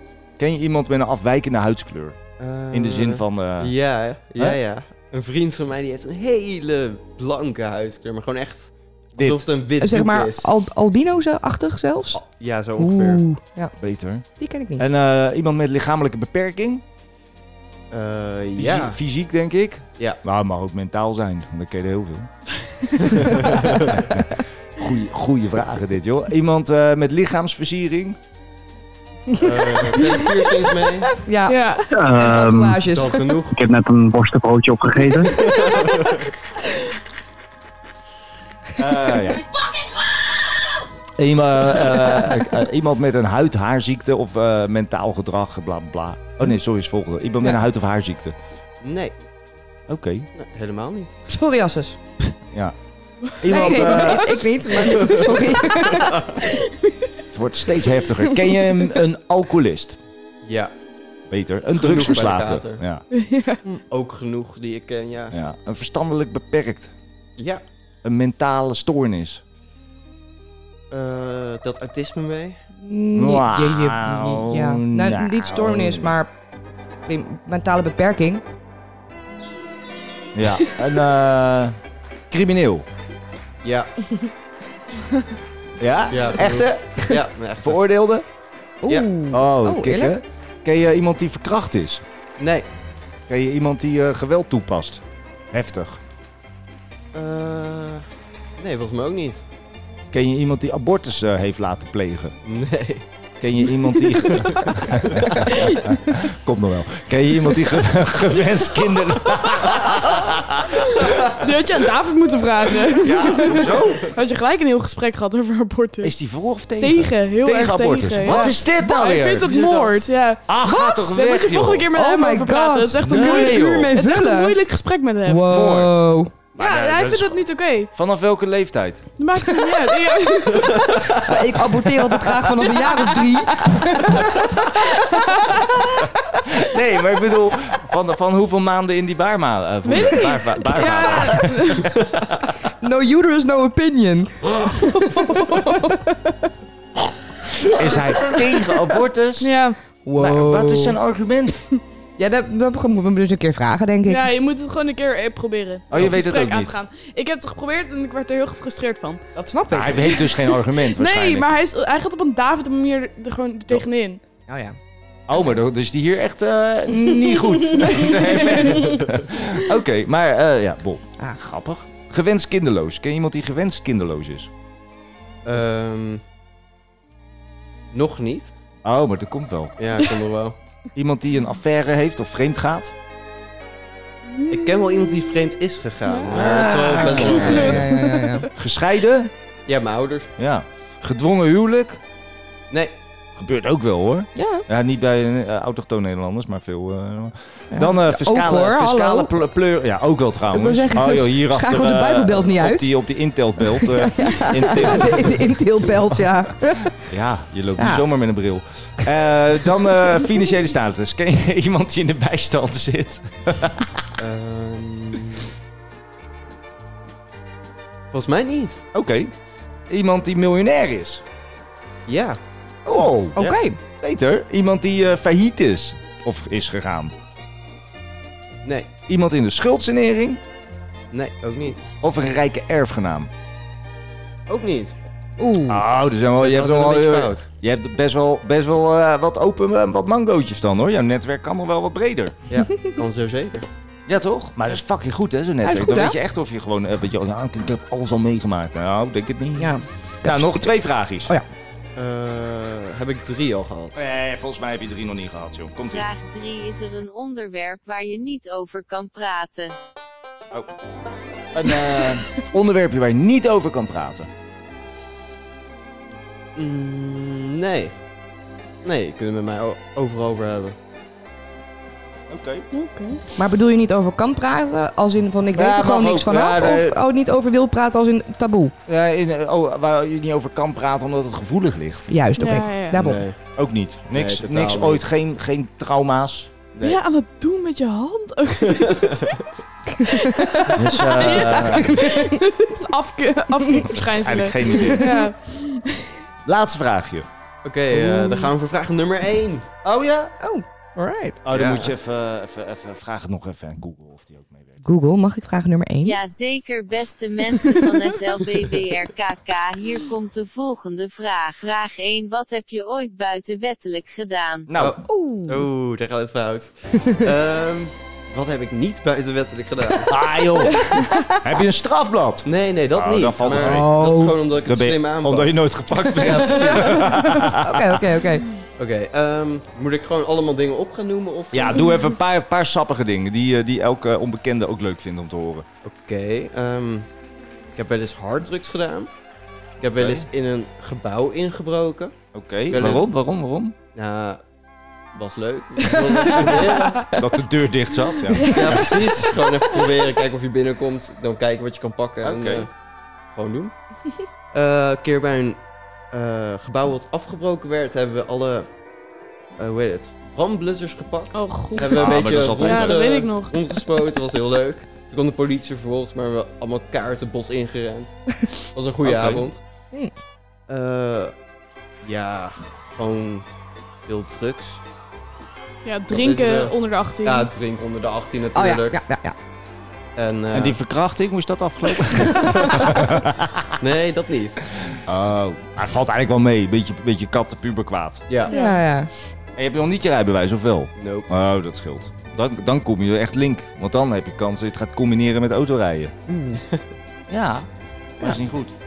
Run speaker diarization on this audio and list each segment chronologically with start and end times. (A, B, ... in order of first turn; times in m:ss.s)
0:00.4-0:03.7 A
0:02.4-0:10.5 B
0:09.2-0:09.4 A
0:09.8-0:12.2 C
0:12.1-0:13.2 B
0:12.8-0:13.7 C
0:13.8-0:16.8 A
0:14.4-0:14.9 C
0:17.9-0:19.0 B
0:18.6-0:22.3 A
0:23.1-0:24.0 B
0:23.2-0:28.2 A
0:29.4-0:31.1 B
0:31.2-0:33.4 C
0:31.5-0:31.9 D
0:31.9-0:32.8 E
0:32.8-0:33.6 B
0:33.5-0:35.4 E
0:35.4-0:36.1 B
0:38.8-0:39.5 A
0:41.2-0:48.4 A
0:48.8-0:49.2 B
0:49.9-0:50.3 A
0:50.4-0:51.2 B
0:51.3-0:52.0 C
0:53.4-0:54.4 A
0:53.5-0:56.2 C
0:53.5-0:54.2 D
0:57.3-1:00.0 A
1:00.4-1:00.7 B
1:01.3-1:03.1 A
1:01.8-1:02.8 B
1:03.1-1:03.6 D
1:03.9-1:05.3 B
1:05.3-1:06.9 A
1:07.4-1:07.6 B
1:08.0-1:09.4 A
1:10.9-1:12.6 B
1:12.8-1:16.3 C
1:13.1-1:16.1 A
1:17.0-1:18.4 C
1:20.4-1:21.8 A
1:22.3-1:22.9 A
1:23.6-1:23.9 B
1:25.8-1:28.2 A
1:26.1-1:27.8 B
1:28.8-1:30.2 C
1:28.9-1:29.1 B
1:29.3-1:32.0 A
1:32.4-1:32.7 B
1:33.3-1:36.0 A
1:37.1-1:38.0 B
1:38.6-1:39.4 B
1:40.1-1:42.4 A
1:42.4-1:43.1 B
1:43.4-1:51.3 A
1:45.6-1:45.8 D
1:50.8-1:56.1 D
1:53.0-1:54.1 A
1:56.0-1:59.9 A
1:56.8-2:05.5 D
1:58.2-1:58.7 C
1:59.5-1:59.9 C
2:00.5-2:01.9 A
2:01.9-2:04.6 C
2:03.0-2:03.9 A
2:05.2-2:06.3 C
2:05.5-2:06.0 A
2:06.6-2:09.1 A
2:06.6-2:07.9 D
2:09.2-2:11.2 D
2:11.2-2:14.5 C
2:12.5-2:13.8 D
2:14.9-2:15.6 D
2:16.4-2:22.0 A
2:19.8-2:21.9 D
2:22.8-2:26.3 C
2:27.6-2:29.5 A
2:29.4-2:29.8 D
2:30.1-2:31.0 C
2:30.2-2:31.6 A
2:32.2-2:34.3 C
2:34.1-2:39.2 D
2:35.9-2:36.8 A
2:39.4-2:40.2 C
2:39.7-2:41.5 A
2:40.0-2:44.2 D
2:44.5-2:44.8 C
2:45.3-2:54.5 A
2:46.9-2:47.8 C
2:47.9-2:48.9 D
2:55.4-2:56.2 B
2:57.9-2:58.5 B
2:58.8-2:59.8 A
2:59.8-3:00.6 B
3:01.0-3:02.9 A
3:04.4-3:04.8 D
3:04.5-3:07.8 B
3:06.3-3:07.8 A
3:07.0-3:08.5 D
3:07.2-3:08.5 C
3:08.6-3:09.3 A
3:09.7-3:10.3 B
3:10.4-3:12.0 A
3:13.4-3:25.5 A
3:14.4-3:14.6 C
3:17.7-3:19.3 C
3:20.5-3:22.9 C
3:23.6-3:26.9 C
3:27.0-3:34.0 A
3:27.8-3:28.0 C
3:34.2-3:35.5 B
3:38.1-3:38.8 B
3:38.9-3:39.3 A
3:39.9-3:41.2 A
3:42.1-3:42.4 B
3:42.9-3:47.1 A
3:43.4-3:43.8 C
3:48.6-3:48.9 B
3:49.1-3:50.4 A
3:51.1-3:51.9 B
3:52.0-3:53.3 A
3:54.5-3:55.0 B
3:55.4-3:55.8 C
3:55.7-4:02.4 A
3:56.4-3:57.5 B
4:02.5-4:03.7 B
4:04.1-4:11.4 A
4:05.6-4:06.2 C
4:09.6-4:11.5 C
4:12.0-4:14.0 B
4:14.0-4:16.0 A
4:15.9-4:19.8 F
4:21.5-4:24.3 A
4:26.6-4:28.0 B
4:28.8-4:30.8 B
4:32.3-4:32.7 A
4:32.7-4:33.2 D
4:33.4-4:38.7 C
4:35.5-4:37.0 A
4:38.9-4:42.2 A
4:42.1-4:43.2 C
4:42.4-4:43.0 D
4:42.9-4:43.4 B
4:43.5-4:46.5 A
4:44.1-4:45.0 B
4:46.7-4:47.0 B
4:46.8-4:49.4 D
4:48.8-4:49.2 B
4:50.1-4:56.1 D
4:50.8-4:52.1 A
4:53.9-4:55.2 A
4:56.4-4:57.3 A
4:57.6-4:59.7 B
4:57.9-4:58.3 C
4:59.8-5:00.3 A
5:00.4-5:01.4 C
5:01.4-5:04.8 A
5:01.5-5:01.9 B
5:04.8-5:06.2 C
5:06.0-5:14.7 F
5:14.7-5:15.0 A
5:14.8-5:20.1 B
5:15.0-5:15.7 C
5:20.1-5:23.9 A
5:22.4-5:25.7 B
5:23.6-5:24.4 C
5:24.6-5:27.9 A
5:26.2-5:27.1 B
5:27.1-5:28.5 C
5:28.8-5:31.8 B
5:31.5-5:35.7 A
5:35.8-5:37.1 B
5:37.8-5:39.1 B
5:39.8-5:42.1 B
5:40.0-5:40.3 A
5:42.3-5:43.8 A
5:42.7-5:43.1 B
5:43.9-5:44.4 B
5:45.1-5:47.1 B
5:47.2-5:49.0 A
5:48.3-5:48.9 D
5:48.5-5:52.7 B
5:52.2-5:52.7 A
5:53.3-5:53.7 B
5:54.5-5:55.6 B
5:56.1-5:58.7 B
5:59.6-6:08.2 B
6:01.3-6:03.8 D
6:01.8-6:03.1 A
6:08.7-6:09.6 B
6:09.0-6:09.5 A
6:10.7-6:11.3 B
6:12.0-6:13.5 B
6:14.0-6:14.8 B
6:15.8-6:17.5 D
6:16.1-6:19.0 B
6:18.5-6:19.4 C
6:20.2-6:20.8 B
6:20.5-6:23.7 A
6:23.8-6:24.6 B
6:25.1-6:28.3 A
6:28.5-6:29.1 C
6:28.5-6:28.8 D
6:29.6-6:36.2 A
6:31.0-6:31.3 B
6:36.3-6:36.6 C
6:37.3-6:37.7 A
6:38.2-6:38.7 A